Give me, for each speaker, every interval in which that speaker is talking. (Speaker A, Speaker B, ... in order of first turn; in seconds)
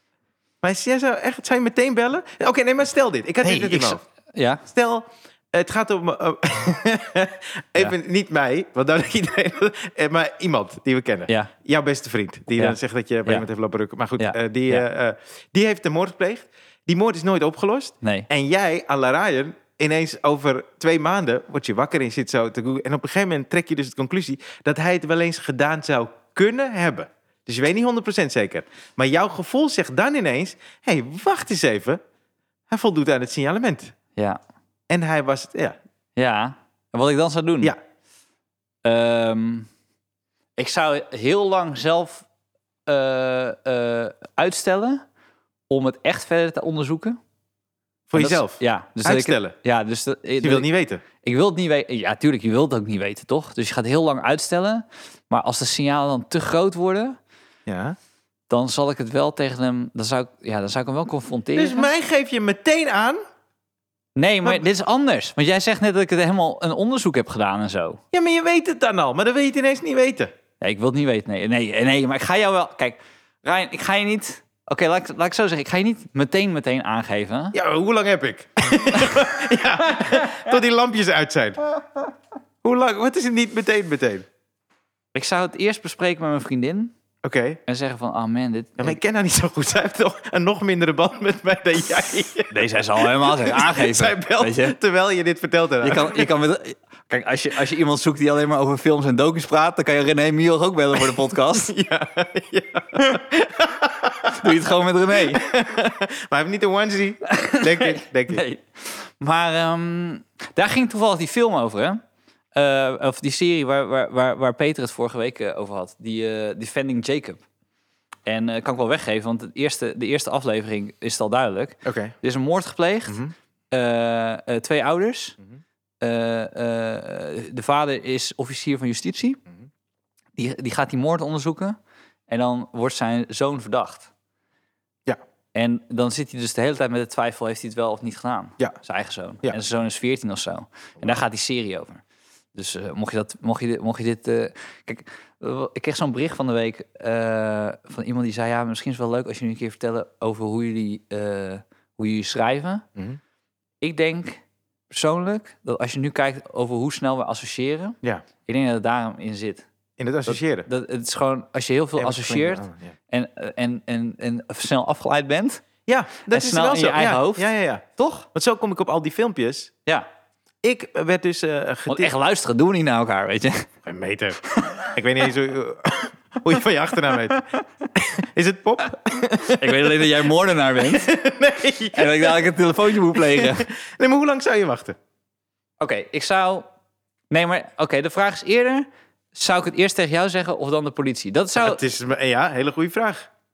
Speaker A: 0.6-4.0, 4.7-32.0, 32.7-33.9, 34.9-35.8, 48.1-49.5, 50.4-51.0, 57.7-58.0, 61.5-63.2, 68.1-70.3, 77.5-81.7, 82.6-84.3, 87.2-87.6, 88.8-96.3, 101.7-104.5, 105.3-108.4, 121.8-122.2, 123.1-123.3, 160.0-160.7, 162.0-162.9, 165.9-169.7, 170.6-172.1, 173.8-177.4, 177.9-180.1, 180.8-182.4, 183.1-185.0, 191.6-193.3
Speaker B: 3.4-4.6, 12.6-13.5, 14.2-14.9, 18.0-18.3, 36.2-37.8, 38.8-39.7, 40.6-42.3, 42.9-45.0, 45.7-47.2, 48.1-50.7, 51.2-57.2, 58.5-61.9, 64.2-68.0, 70.6-77.6, 79.0-79.3, 79.8-80.4, 85.1-86.9, 87.7-89.0, 92.5-94.8, 95.8-101.7, 104.3-105.4, 107.3-112.0, 112.5-117.4, 118.3-125.4, 126.0-129.4, 130.4-131.8, 132.3-134.1, 135.5-142.0, 142.6-152.9, 153.8-159.7, 160.3-165.6, 166.3-168.3, 171.9-173.7, 174.5-174.9, 177.2-177.4, 179.4-181.1, 181.9-183.7, 185.8-186.7, 187.3-191.8